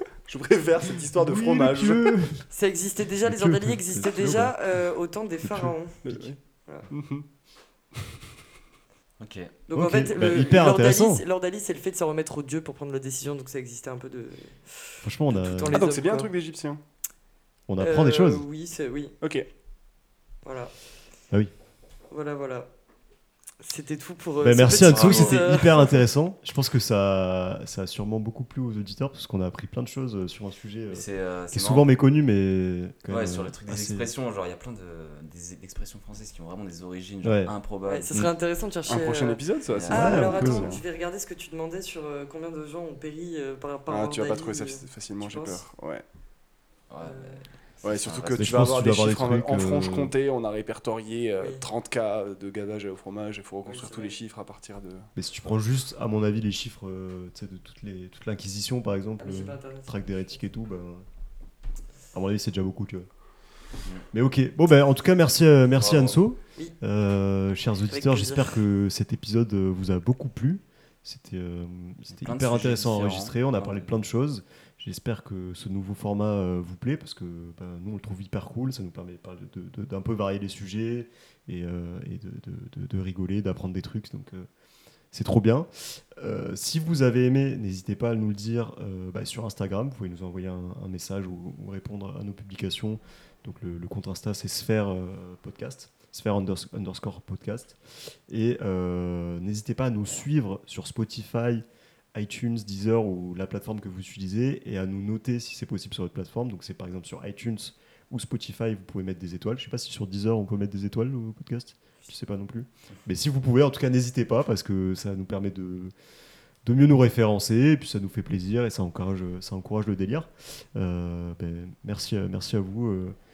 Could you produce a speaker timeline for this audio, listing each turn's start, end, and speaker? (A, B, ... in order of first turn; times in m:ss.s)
0:00.2-0:02.1 A
0:01.2-0:02.5 B
0:02.5-0:06.9 C
0:03.2-0:04.6 B
0:05.4-0:06.2 B
0:06.0-0:06.4 A
0:06.9-0:07.2 A
0:09.2-0:09.5 D
0:09.7-0:16.3 C
0:09.7-0:11.2 B
0:15.0-0:15.8 B
0:15.7-0:16.8 A
0:17.7-0:18.4 B
0:17.8-0:19.1 C
0:20.4-0:20.7 C
0:22.1-0:22.7 C
0:23.6-0:25.9 C
0:24.4-0:34.1 B
0:24.8-0:25.4 D
0:30.9-0:31.9 D
0:33.1-0:38.1 D
0:37.2-0:37.5 B
0:37.9-0:45.6 C
0:38.9-0:40.8 A
0:39.7-0:40.4 D
0:39.9-0:40.7 B
0:43.9-0:46.0 A
0:46.9-0:48.5 D
0:47.0-0:47.4 C
0:47.8-0:55.1 A
0:48.4-0:50.1 B
0:53.6-0:54.2 C
0:55.2-1:01.0 B
0:59.2-1:00.3 C
1:02.1-1:03.1 B
1:04.1-1:24.5 B
1:05.8-1:06.2 D
1:07.9-1:08.6 C
1:12.2-1:13.9 D
1:25.1-1:55.9 B
1:56.6-2:03.2 B